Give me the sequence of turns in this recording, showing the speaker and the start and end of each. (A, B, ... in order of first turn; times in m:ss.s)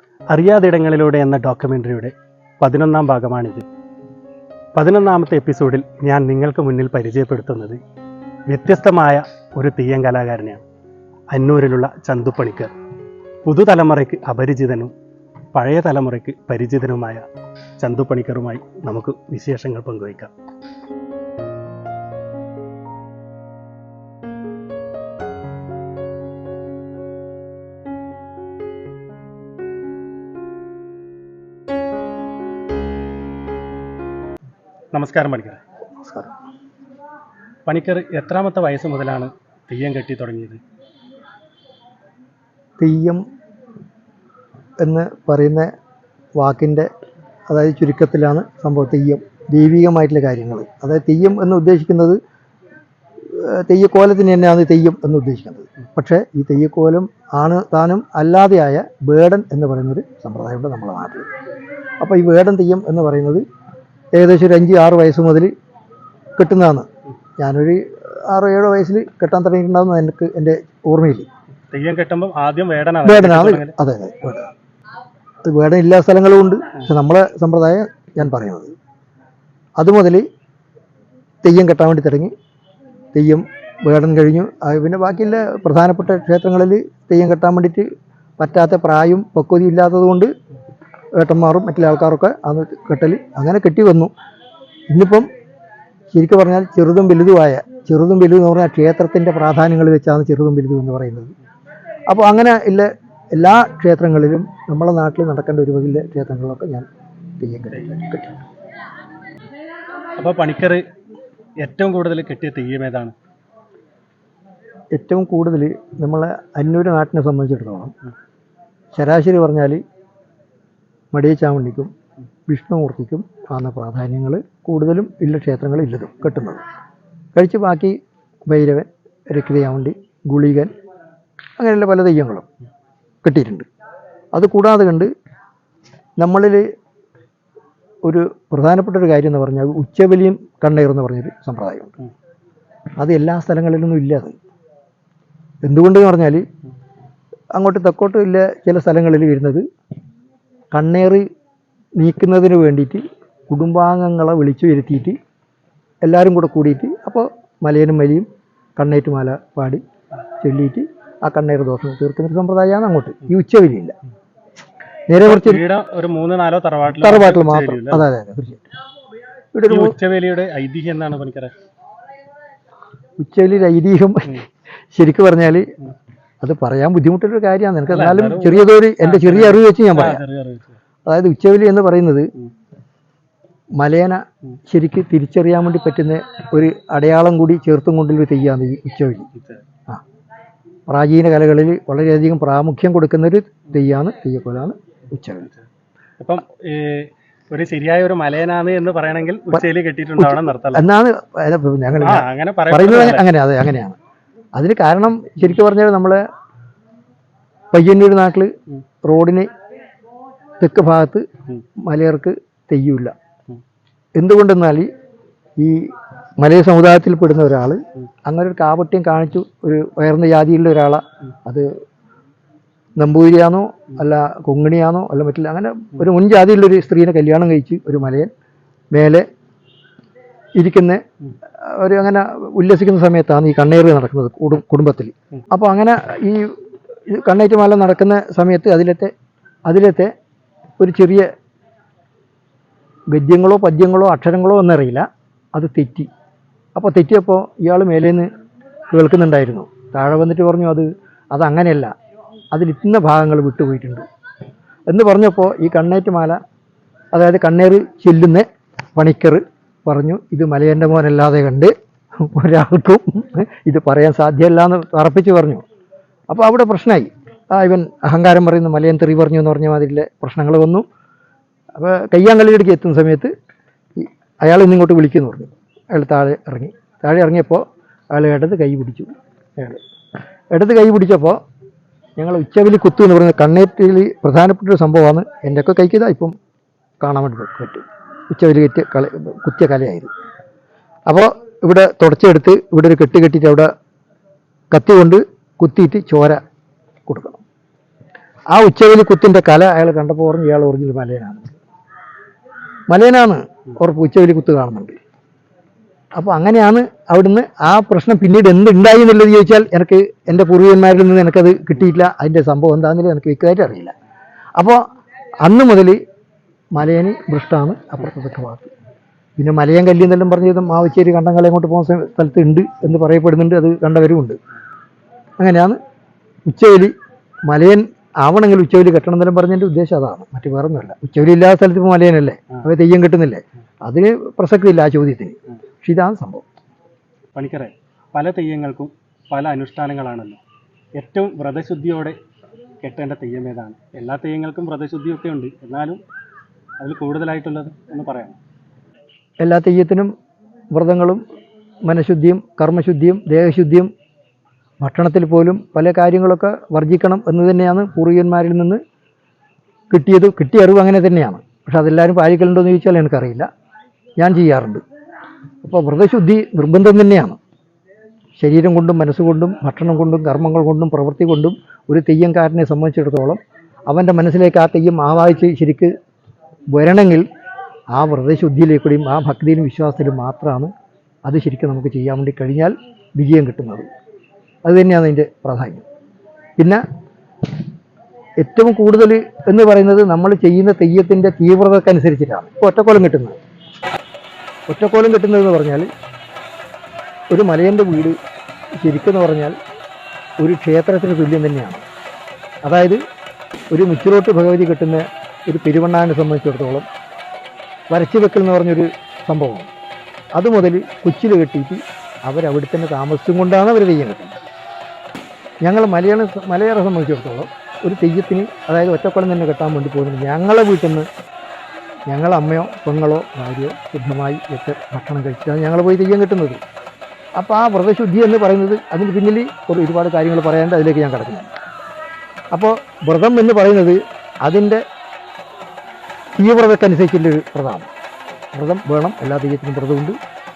0:00.3-0:03.6 A
0:04.7-0:07.8 A
0:08.5-0:10.6 A
0:11.3-0:12.7 A
0:13.4-0:14.9 A
0:15.5-0:17.2 A
0:17.8-0:20.3 A
0:34.9-0:35.6 A
0:36.0-0:36.3 B
0:37.6-0:40.6 A
0:42.8-0:43.2 B
0:44.8-0:45.7 B
0:46.4-0:46.9 B
0:47.5-0:52.2 B
0:53.2-1:01.3 B
1:02.0-1:03.4 B
1:04.1-1:05.5 B
1:06.4-1:06.9 B
1:07.4-1:11.3 B
1:11.7-1:13.7 A
1:13.0-1:14.5 B
1:15.4-1:18.7 B
1:19.8-1:20.2 B
1:21.4-1:22.3 B
1:23.1-1:27.9 B
1:28.4-1:30.3 B
1:31.2-1:34.1 B
1:34.9-1:35.3 B
1:36.1-1:41.3 B
1:42.1-1:46.9 B
1:47.4-1:48.4 B
1:50.2-1:50.8 A
1:51.6-1:53.1 A
1:54.9-1:57.9 B
1:58.9-1:59.8 B
2:01.1-2:01.9 B
2:02.5-2:06.6 B
2:07.3-2:10.7 B
2:11.6-2:12.5 B
2:13.2-2:13.7 B
2:14.3-2:15.1 B
2:16.2-2:16.6 B
2:18.0-2:22.0 B
2:23.0-2:24.3 B
2:25.6-2:26.4 B
2:27.5-2:29.6 B
2:30.7-2:31.2 B
2:32.0-2:35.2 B
2:36.0-2:39.8 B
2:40.4-2:44.0 B
2:45.1-2:45.6 B
2:45.2-2:48.0 A
2:46.9-2:48.6 B
2:49.5-2:49.9 B
2:49.7-2:51.5 A
2:53.2-2:54.4 B
2:54.9-2:55.7 B
2:56.4-3:00.2 B
2:57.9-3:00.8 A
3:01.0-3:02.3 B
3:03.8-3:09.3 B
3:09.4-3:09.6 A
3:10.9-3:15.5 B
3:16.2-3:20.9 A
3:20.2-3:24.0 B
3:22.0-3:23.2 A
3:24.5-3:26.2 B
3:27.7-3:28.5 B
3:29.0-3:29.5 B
3:30.6-3:31.2 B
3:31.8-3:33.1 B
3:34.2-3:34.9 B
3:35.6-3:41.7 B
3:43.0-3:48.3 B
3:48.9-3:49.2 B
3:50.6-3:51.0 B
3:51.6-3:56.6 B
3:57.1-3:59.1 B
3:59.6-4:00.1 B
4:00.8-4:01.3 B
4:03.1-4:06.1 B
4:06.7-4:08.3 B
4:08.9-4:11.9 B
4:12.5-4:14.0 B
4:14.9-4:16.4 B
4:17.1-4:25.6 B
4:26.3-4:30.8 B
4:31.8-4:33.3 B
4:34.0-4:39.8 B
4:40.5-4:41.4 B
4:42.2-4:46.3 B
4:47.0-4:50.1 B
4:51.1-4:53.7 B
4:54.7-4:56.4 B
4:57.1-4:57.4 B
4:58.5-5:01.5 B
5:02.9-5:05.0 B
5:06.2-5:13.9 B
5:14.6-5:14.8 B
5:15.4-5:16.0 B
5:16.7-5:18.7 B
5:19.4-5:24.4 B
5:25.4-5:25.8 B
5:26.4-5:26.9 B
5:27.5-5:36.4 B
5:37.3-5:40.4 A
5:41.0-5:42.2 A
5:42.8-5:46.0 A
5:46.8-5:48.4 A
5:49.4-5:50.1 B
5:50.7-5:51.2 B
5:51.8-5:53.9 B
5:54.8-5:58.8 B
5:59.9-6:03.5 B
6:04.2-6:04.8 B
6:05.6-6:07.4 B
6:08.4-6:15.9 B
6:16.7-6:17.3 B
6:17.9-6:20.7 B
6:21.2-6:23.9 B
6:24.6-6:25.8 B
6:28.4-6:33.4 B
6:34.7-6:35.9 B
6:37.3-6:38.2 B
6:38.8-6:39.6 B
6:40.4-6:41.8 B
6:42.6-6:43.0 B
6:43.7-6:46.9 B
6:47.9-6:49.7 B
6:50.3-6:54.4 B
6:55.6-7:01.1 B
7:02.1-7:06.6 B
7:07.4-7:11.5 B
7:12.5-7:14.8 B
7:16.3-7:17.8 B
7:18.5-7:20.2 B